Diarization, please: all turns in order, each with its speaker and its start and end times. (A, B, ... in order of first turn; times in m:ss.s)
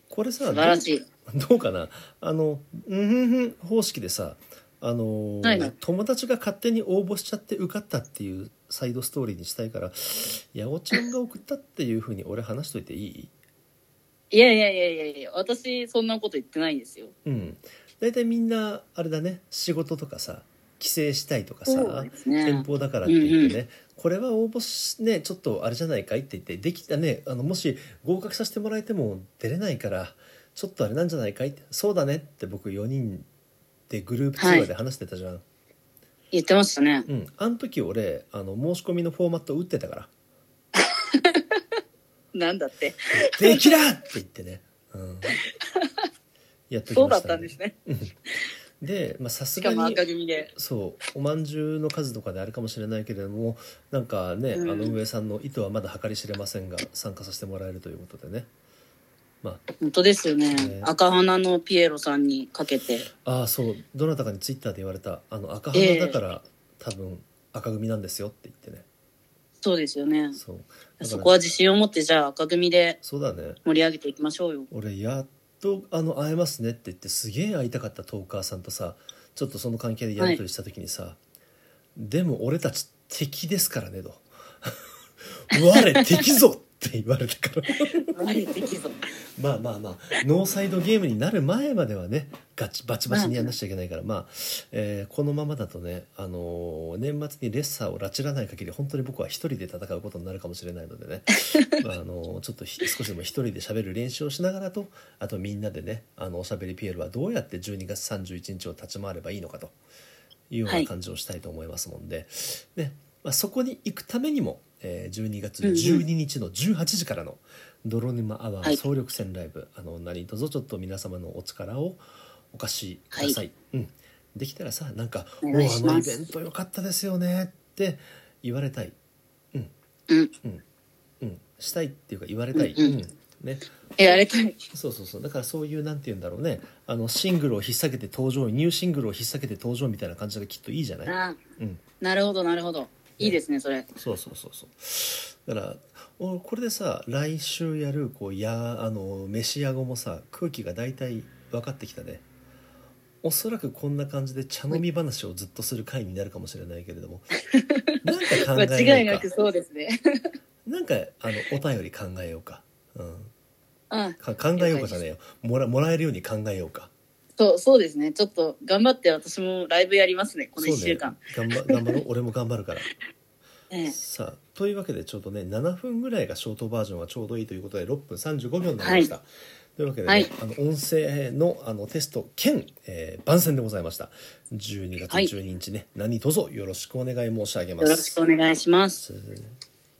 0:00.1-0:13.3 A
0:00.5-0:01.0 B
0:05.4-0:05.7 B
0:14.3-0:17.1 B
0:17.2-0:33.3 A
0:21.7-0:23.6 B
0:33.9-0:35.4 A
0:34.4-0:34.7 B
0:36.3-0:37.0 B
0:37.1-0:40.1 A
0:40.8-0:41.6 B
0:42.3-0:43.7 B
0:43.1-0:45.4 A
0:45.3-0:46.0 B
0:46.7-0:48.2 A
0:46.9-0:47.7 B
0:48.8-0:58.5 A
0:49.6-0:50.5 B
0:54.5-0:55.0 B
0:59.8-1:03.1 B
1:00.5-1:00.9 A
1:03.2-1:08.8 A
1:05.7-1:06.2 B
1:09.6-1:10.4 B
1:10.3-1:11.6 A
1:11.0-1:13.0 B
1:13.0-1:13.6 A
1:13.6-1:14.7 B
1:14.7-1:21.2 A
1:22.0-1:28.1 A
1:28.1-1:28.9 B
1:29.4-1:49.7 A
1:33.1-1:33.5 B
1:50.5-2:08.9 A
1:55.6-1:56.0 B
2:05.4-2:06.1 B
2:11.2-2:13.7 A
2:12.5-2:13.0 B
2:14.0-2:14.6 B
2:14.7-2:21.8 A
2:21.0-2:21.4 B
2:22.0-2:23.9 B
2:24.0-2:32.2 A
2:33.2-2:37.3 A
2:37.4-2:40.0 B
2:38.0-2:39.3 A
2:40.6-2:43.3 A
2:43.9-2:45.0 B
2:44.2-2:46.9 A
2:47.4-2:51.7 B
2:50.6-2:52.9 A
2:53.7-2:54.0 B
2:53.9-3:08.2 A
2:58.8-2:59.1 B
3:07.8-3:09.0 B
3:09.0-3:09.6 A